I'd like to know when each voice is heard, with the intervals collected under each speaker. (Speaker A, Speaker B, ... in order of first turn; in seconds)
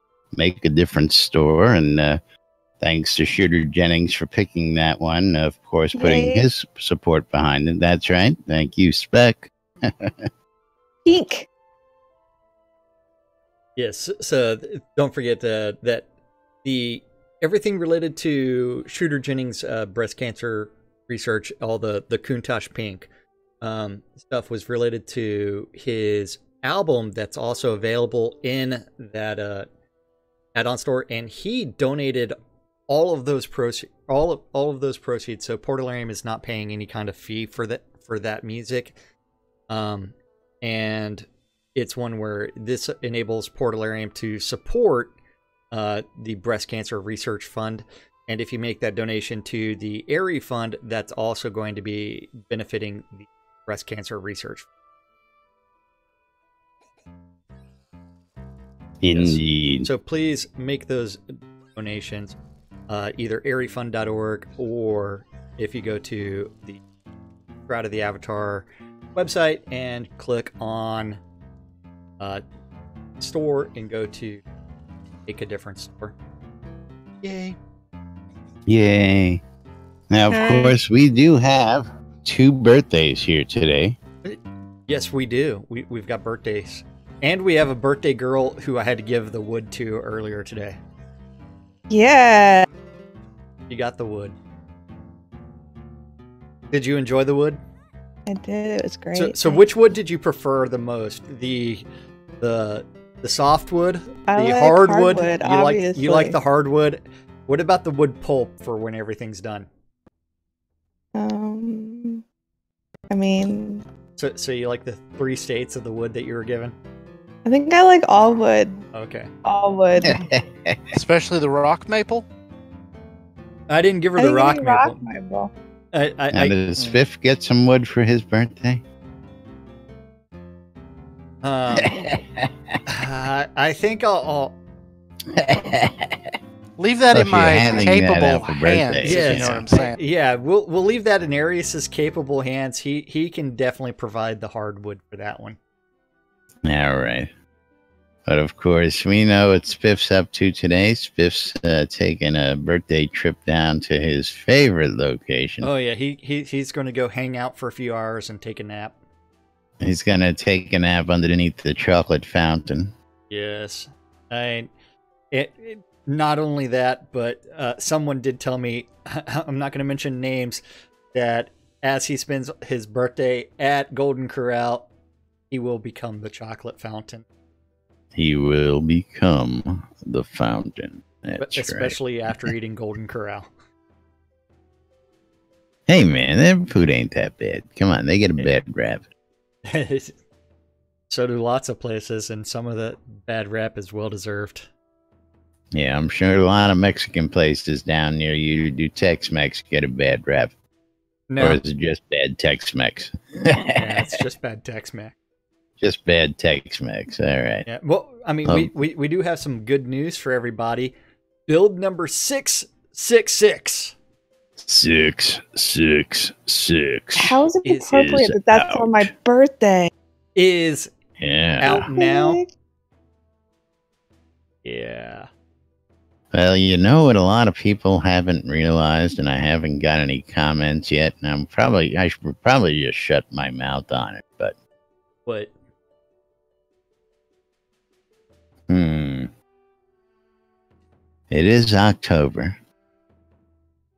Speaker A: 0.3-2.2, 2.8-10.2, 59.0-59.9, 78.7-79.4, 80.1-84.0, 120.0-120.8, 126.3-128.8, 131.8-132.1, 135.3-136.2, 137.1-139.6, 146.6-147.3, 148.2-155.7, 159.8-162.9, 178.1-182.0, 185.9-189.0, 195.7-200.5, 201.4-204.1, 205.8-207.7, 208.5-208.7, 214.6-217.4, 217.9-219.1, 221.2-221.9, 226.3-234.5, 238.7-239.3, 241.3-242.6
Speaker B: 5.9-6.4, 11.1-11.5, 80.3-80.8, 91.9-92.7, 98.3-99.6, 104.3-106.4, 111.1-112.2, 113.1-113.8, 117.4-118.8, 119.4-120.2, 124.2-125.5, 217.2-219.9, 221.9-222.5
Speaker C: 13.8-16.1, 16.6-23.1, 23.6-29.7, 30.5-32.4, 32.9-39.0, 39.7-45.1, 45.7-54.7, 59.1-62.4, 62.9-66.8, 67.7-71.2, 73.2-74.4, 75.2-76.1, 77.2-77.6, 84.2-90.8, 93.7-94.3, 96.7-97.6, 99.1-101.8, 102.4-109.7, 114.2-116.7, 118.9-119.3, 123.7-125.0, 125.9-126.6, 131.4-132.1, 132.9-134.6, 139.0-145.6, 155.6-159.0, 163.3-164.7, 165.3-174.9, 175.5-177.2, 181.4-183.5, 189.6-190.2, 191.1-194.7, 201.3-201.6, 203.7-205.1, 207.7-210.9, 211.5-213.9, 217.6-218.0, 220.3-220.9, 221.6-222.4, 224.6-225.3, 235.2-235.5
Speaker D: 120.9-122.2, 136.8-140.0